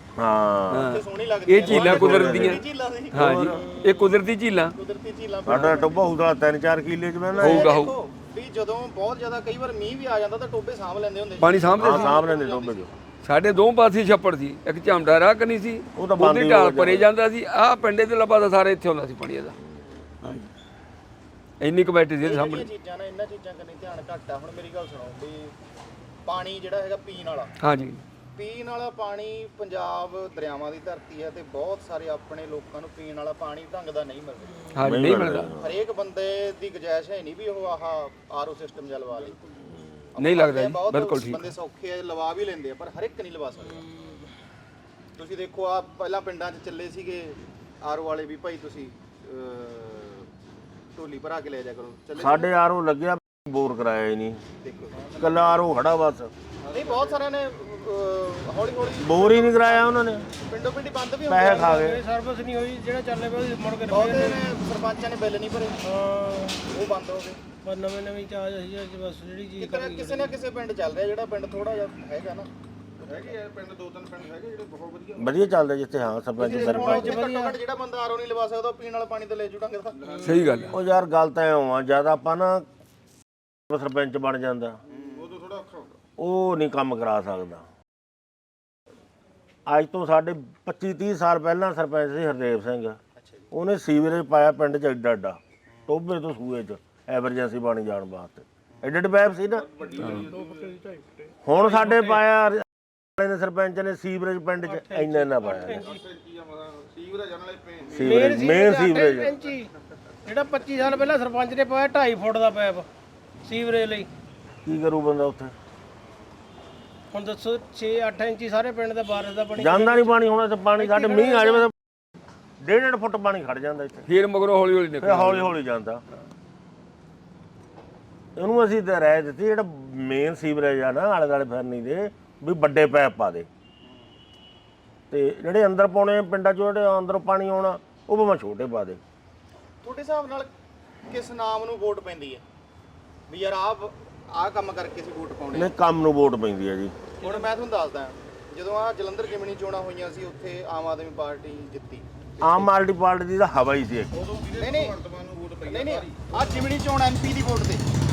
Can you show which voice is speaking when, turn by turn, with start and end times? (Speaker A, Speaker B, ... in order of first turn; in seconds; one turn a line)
Speaker A: 0.2-0.9
Speaker B: 0.7-4.7
Speaker C: 0.7-3.5
Speaker A: 1.6-3.6
Speaker C: 4.7-6.1
Speaker A: 5.5-7.8
Speaker C: 7.3-12.9
Speaker B: 7.4-7.9
Speaker B: 11.4-12.2
Speaker A: 11.8-12.9
Speaker B: 13.2-19.6
Speaker A: 16.0-17.1
Speaker A: 19.6-19.9
Speaker B: 21.6-22.7
Speaker C: 22.2-25.5
Speaker C: 26.2-27.5
Speaker B: 27.6-28.0
Speaker C: 28.4-34.7
Speaker B: 34.7-35.5
Speaker A: 34.8-35.8
Speaker C: 35.5-39.4
Speaker D: 39.1-39.6
Speaker C: 40.1-43.9
Speaker B: 40.2-41.5
Speaker E: 43.7-44.3
Speaker C: 45.1-50.3
Speaker C: 50.9-52.5
Speaker A: 52.1-54.4
Speaker C: 54.6-55.0
Speaker D: 55.0-55.8
Speaker A: 55.2-56.3
Speaker D: 56.6-57.2
Speaker C: 56.7-61.7
Speaker A: 59.0-60.3
Speaker A: 61.3-62.0
Speaker E: 61.3-64.4
Speaker C: 63.9-65.8
Speaker E: 65.8-66.6
Speaker C: 66.7-67.4
Speaker E: 67.6-70.4
Speaker C: 69.6-73.4
Speaker D: 73.0-75.5
Speaker A: 75.2-77.2
Speaker C: 76.4-80.1
Speaker E: 76.4-77.6
Speaker D: 79.9-80.8
Speaker E: 80.1-80.7
Speaker B: 80.2-80.7
Speaker A: 80.7-82.7
Speaker A: 83.7-84.8
Speaker C: 84.9-85.4
Speaker D: 84.9-86.0
Speaker A: 86.2-87.7
Speaker A: 89.7-93.0
Speaker C: 93.2-93.5
Speaker A: 93.5-100.1
Speaker D: 99.5-100.9
Speaker E: 100.4-101.0
Speaker A: 101.4-105.8
Speaker E: 101.5-102.2
Speaker E: 104.6-106.0
Speaker D: 105.6-108.6
Speaker A: 107.9-109.3
Speaker E: 108.0-109.7
Speaker E: 110.2-112.9
Speaker E: 113.4-114.1
Speaker A: 114.6-115.5
Speaker E: 117.1-120.1
Speaker A: 119.5-121.7
Speaker E: 120.8-121.7
Speaker A: 122.6-124.1
Speaker B: 124.1-125.5
Speaker A: 125.0-126.0
Speaker A: 128.3-133.5
Speaker C: 133.8-134.1
Speaker A: 135.1-139.0
Speaker C: 139.8-140.5
Speaker C: 141.1-142.4
Speaker C: 143.3-145.7
Speaker A: 145.5-146.9
Speaker E: 147.2-147.5
Speaker C: 147.2-152.7
Speaker A: 152.4-154.2
Speaker D: 154.1-156.7
Speaker C: 154.6-155.0
Speaker C: 155.6-157.8